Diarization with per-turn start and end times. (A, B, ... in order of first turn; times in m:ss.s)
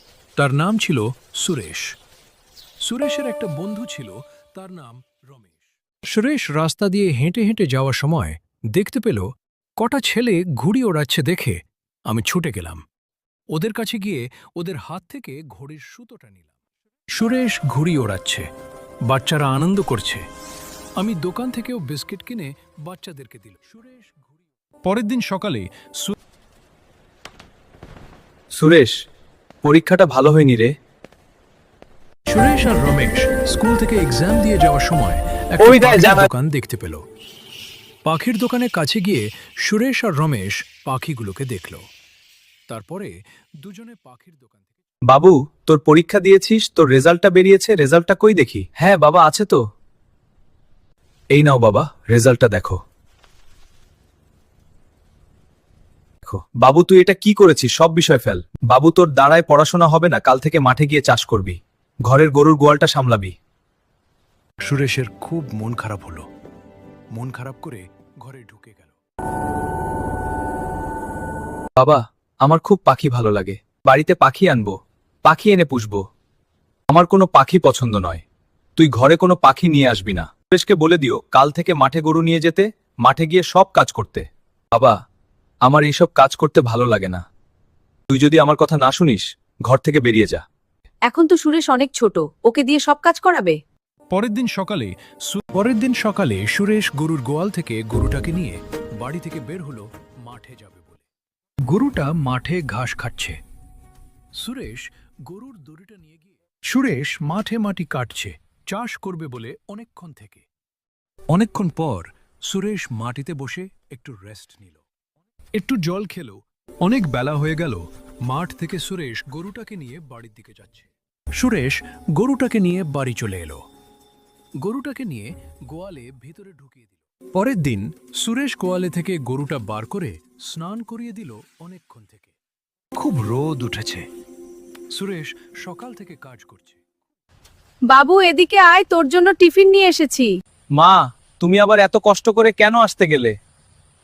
0:00.4-0:01.9 A
0:02.8-0:12.8 A
0:13.5-0:16.5 A
0:17.1-0:18.5 A
0:19.0-0:20.2 A
0:21.0-0:26.2 A
0:28.6-0:29.0 B
0:29.6-0:30.7 B
0:32.3-0:37.0 A
0:35.6-0:36.3 B
0:38.0-0:41.8 A
0:42.7-0:44.8 A
0:45.1-0:49.6 B
0:51.3-0:52.8 B
0:56.2-1:03.4 B
1:04.6-1:06.3 A
1:07.1-1:09.0 A
1:11.8-1:14.8 B
1:15.3-1:16.0 B
1:16.9-1:18.2 B
1:18.8-1:25.0 B
1:25.7-1:27.2 B
1:28.1-1:30.4 B
1:31.1-1:33.6 C
1:34.1-1:41.1 A
1:41.7-1:43.4 A
1:44.4-1:50.4 A
1:51.3-1:54.8 A
1:55.6-2:03.6 A
2:04.6-2:12.4 A
2:13.0-2:14.1 A
2:14.9-2:16.8 A
2:17.9-2:20.3 C
2:20.8-2:23.4 B